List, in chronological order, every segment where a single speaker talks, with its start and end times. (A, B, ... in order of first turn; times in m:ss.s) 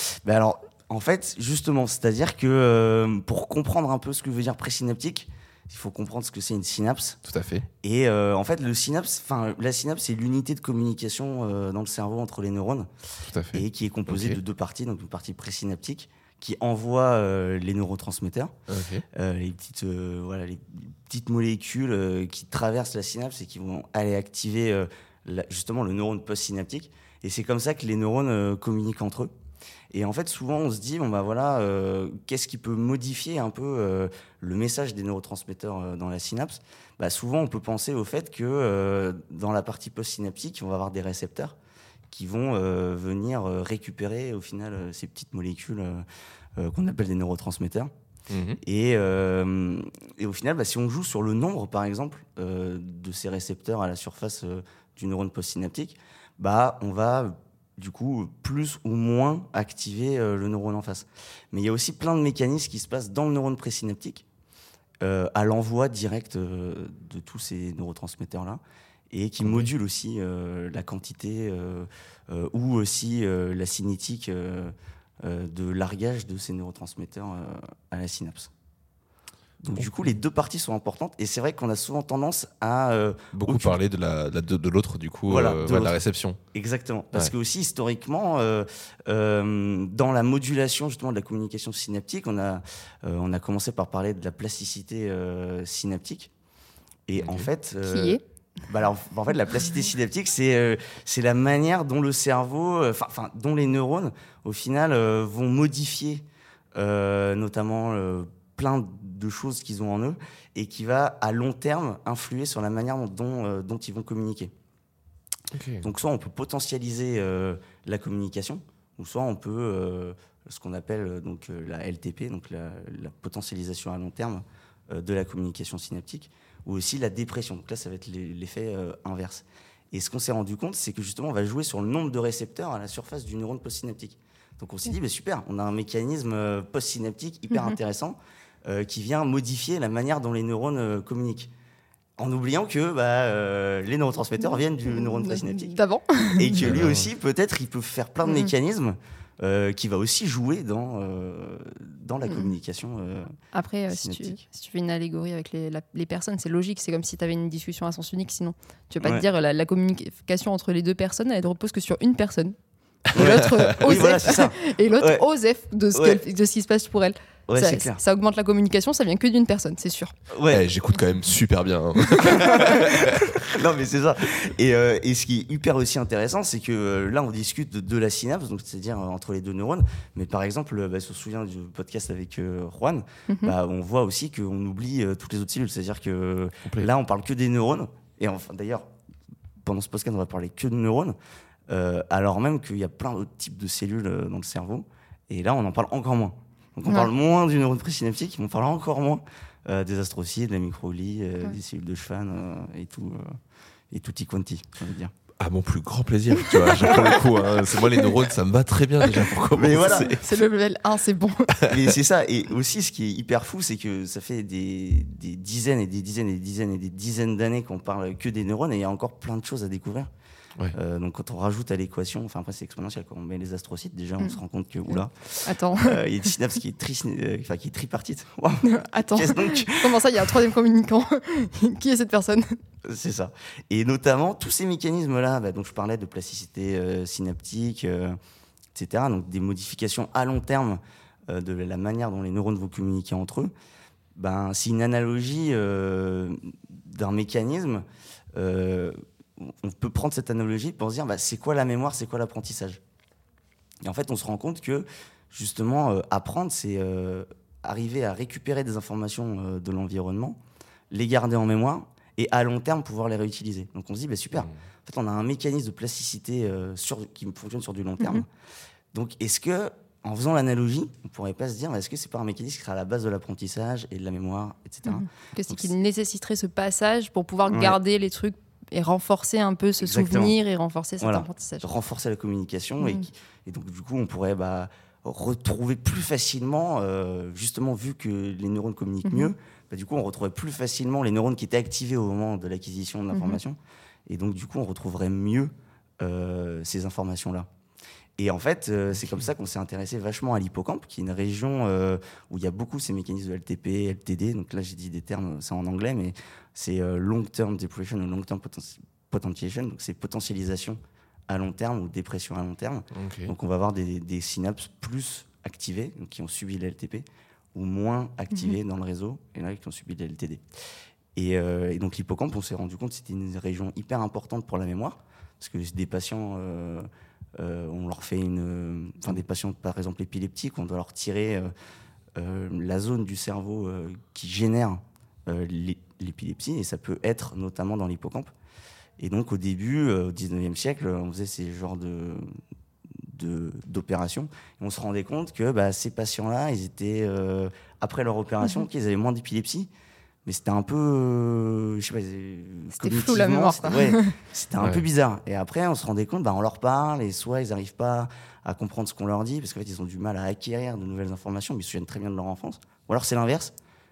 0:00.2-0:07.2 A
0:07.2-0:07.7 B
0:07.8-0:12.9 A
0:13.2-0:14.4 B
0:13.5-0:18.5 A
0:18.7-0:19.0 B
0:19.1-0:29.3 A
0:29.9-0:41.6 A
0:42.1-0:46.0 A
0:46.6-0:47.9 A
0:48.3-0:48.6 B
0:48.6-1:04.3 A
1:05.0-1:18.5 A
1:09.4-1:09.7 B
1:19.6-1:23.8 A
1:19.8-1:20.1 B
1:23.3-1:26.4 B
1:25.3-1:26.0 A
1:26.5-1:36.3 A
1:37.1-1:54.5 A
1:37.2-1:37.5 B
1:37.8-1:38.2 C
1:55.5-1:55.8 B
1:55.8-2:21.5 A
2:22.2-2:25.8 A
2:24.4-2:26.7 C
2:26.4-2:33.3 A
2:26.6-2:27.1 B
2:28.2-2:28.5 C
2:33.5-2:42.6 C
2:33.9-2:34.4 A
2:43.1-2:50.1 C
2:43.1-2:43.9 B
2:43.2-2:45.2 A
2:45.9-2:46.2 A
2:47.5-2:48.0 A
2:50.3-2:50.6 A
2:50.5-2:53.4 B
2:52.1-2:52.6 C
2:52.3-3:08.8 A
3:03.3-3:03.6 C
3:09.6-3:11.2 A
3:11.7-3:23.4 A
3:23.9-3:25.1 A
3:25.4-3:30.2 B
3:26.5-3:27.3 C
3:29.5-3:30.2 A
3:29.8-3:31.6 C
3:31.6-3:40.1 A
3:40.7-3:50.0 A
3:44.9-3:46.3 C
3:48.6-3:52.6 C
3:52.8-3:58.2 A
3:58.8-4:03.5 A
4:04.2-4:12.8 A
4:13.8-4:20.4 A
4:20.9-4:28.3 A
4:28.9-4:35.7 A
4:34.8-4:41.7 C
4:37.5-4:37.8 A
4:39.8-4:40.4 A
4:41.0-4:57.5 A
4:42.8-4:43.1 C
4:49.0-4:49.3 C
4:53.1-4:53.4 C
4:58.2-5:20.4 A
5:12.9-5:13.3 B
5:21.2-5:26.9 A
5:27.4-5:31.5 A
5:32.2-5:38.3 A
5:39.0-5:42.3 A
5:43.0-5:49.7 A
5:50.2-6:03.5 A
5:52.8-5:54.2 C
5:54.6-5:54.9 B